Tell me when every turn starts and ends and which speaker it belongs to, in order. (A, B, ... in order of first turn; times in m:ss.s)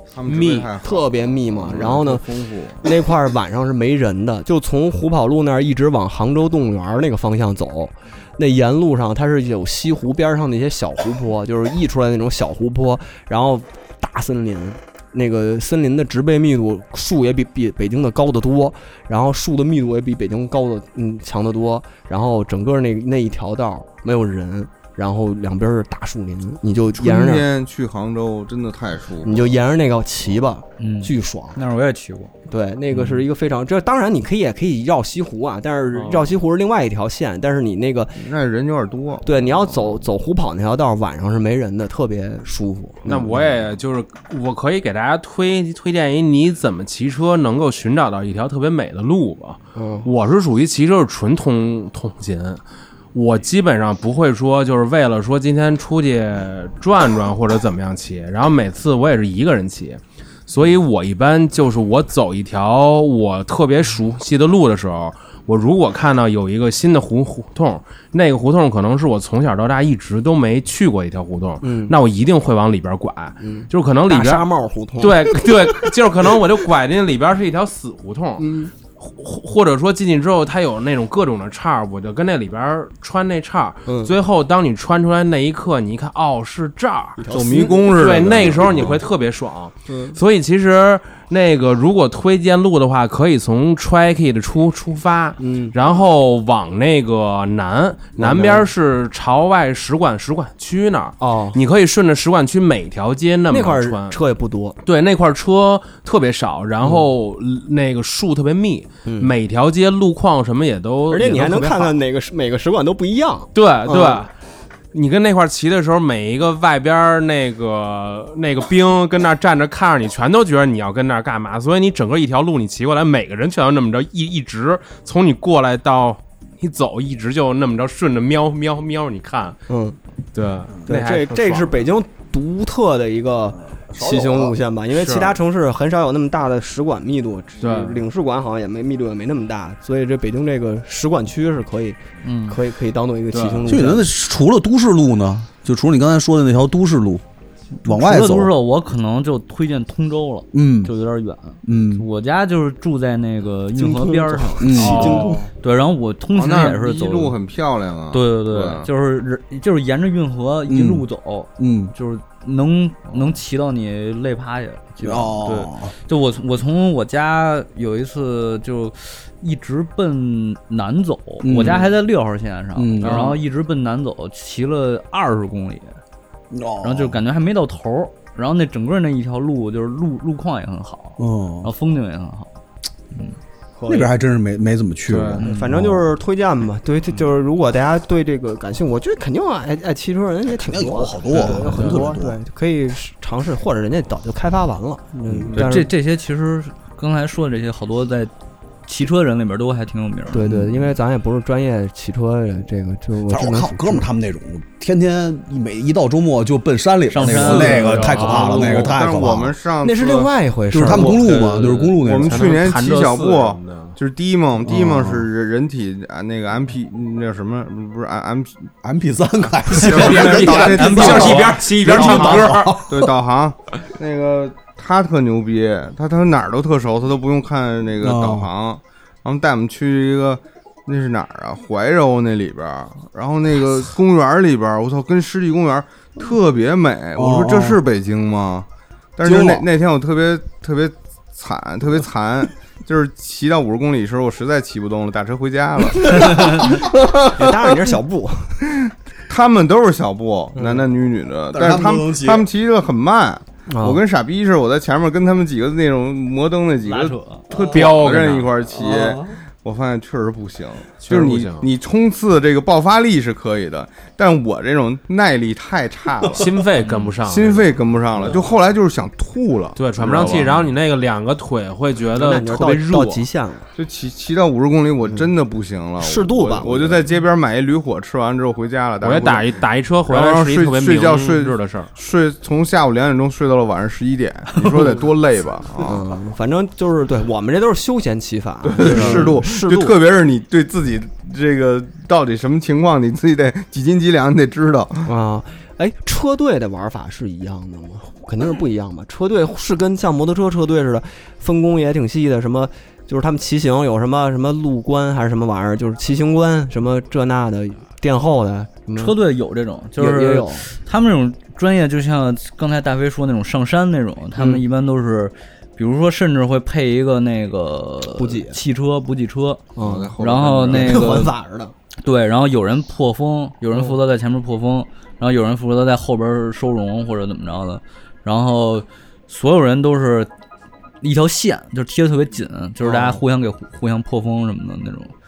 0:00.1-0:02.8 A
0:00.3-0:02.3 B
0:02.8-0:27.5 B
0:27.0-0:29.5 A
0:29.2-0:31.6 B
0:30.8-0:32.3 C
0:32.5-0:38.2 B
0:32.9-0:33.2 C
0:35.9-0:36.4 D
0:38.2-0:39.3 A
0:39.2-0:43.4 B
0:43.1-0:52.6 D
0:43.2-0:43.5 A
0:49.8-0:50.1 B
0:53.1-1:14.5 D
1:11.6-1:12.0 B
1:13.4-1:15.9 B
1:15.0-1:27.3 D
1:18.4-1:18.7 B
1:23.9-1:24.2 B
1:27.2-1:29.0 B
1:27.3-1:29.0 A
1:27.8-1:44.2 D
1:29.9-1:30.2 B
1:35.4-1:35.8 B
1:38.2-1:38.7 B
1:41.2-1:41.6 B
1:43.5-1:44.8 B
1:44.8-1:52.0 D
1:46.8-1:47.1 B
1:49.1-1:49.3 B
1:51.1-1:54.2 B
1:53.5-1:54.3 D
1:54.9-2:09.6 D
2:09.7-2:10.0 B
2:10.3-2:11.9 D
2:10.9-2:24.1 B
2:13.9-2:14.5 E
2:17.6-2:18.0 D
2:22.2-2:22.6 C
2:23.3-2:23.8 D
2:23.7-2:27.2 E
2:27.8-2:37.4 C
2:27.8-2:28.5 E
2:30.5-2:30.9 E
2:31.6-2:32.1 E
2:33.8-2:35.5 B
2:34.6-2:35.2 E
2:34.7-2:35.5 D
2:36.3-2:38.9 A
2:38.1-2:56.0 C
2:40.7-2:41.1 E
2:41.6-2:41.9 E
2:45.0-2:45.9 E
2:51.4-2:51.9 E
2:52.8-2:53.2 E
2:53.0-2:53.4 D
2:56.5-2:57.2 E
2:56.8-3:02.5 C
3:01.2-3:01.7 E
3:03.8-3:04.1 B
3:03.9-3:06.1 E
3:05.1-3:05.4 D
3:05.4-3:05.7 C
3:05.4-3:15.9 B
3:10.5-3:12.4 E
3:11.3-3:12.1 D
3:15.5-3:18.3 C
3:18.9-3:20.5 C
3:20.3-3:24.1 B
3:23.3-3:29.6 E
3:27.1-3:29.0 C
3:27.4-3:28.3 D
3:27.6-3:30.3 A
3:29.8-3:31.2 B
3:30.7-3:32.5 E
3:31.0-3:38.7 A
3:31.1-3:34.0 D
3:31.4-3:31.9 C
3:34.6-3:35.3 E
3:38.8-3:43.1 E
3:39.6-4:07.9 A
3:39.8-3:42.8 D
3:40.5-3:42.0 C
3:48.0-3:48.5 E
3:57.2-3:57.8 E
3:59.2-3:59.7 E
4:07.3-4:08.6 B
4:08.8-4:26.6 A
4:10.6-4:10.8 B
4:11.5-4:12.5 E
4:13.7-4:14.0 B
4:16.8-4:17.5 C
4:17.5-4:18.5 D
4:18.7-4:19.4 E
4:21.0-4:21.7 D
4:26.4-4:27.7 D
4:26.8-4:27.2 C
4:27.2-4:30.7 A
4:29.8-4:33.2 D
4:32.2-4:33.7 B
4:33.8-4:46.0 A
4:36.0-4:37.0 B
4:39.0-4:41.9 D
4:44.6-4:45.0 C
4:45.8-4:50.0 B
4:48.6-4:55.1 A
4:48.9-4:49.3 D
4:55.0-5:09.1 B
5:09.0-5:19.7 C
5:10.0-5:10.7 B
5:14.4-5:14.6 B
5:18.1-5:18.6 B
5:19.8-5:20.1 B
5:19.8-5:21.3 A
5:20.2-5:21.3 C
5:20.7-5:21.7 B
5:22.0-5:30.3 C
5:23.7-5:24.0 B
5:31.0-5:35.1 C
5:32.8-5:33.2 B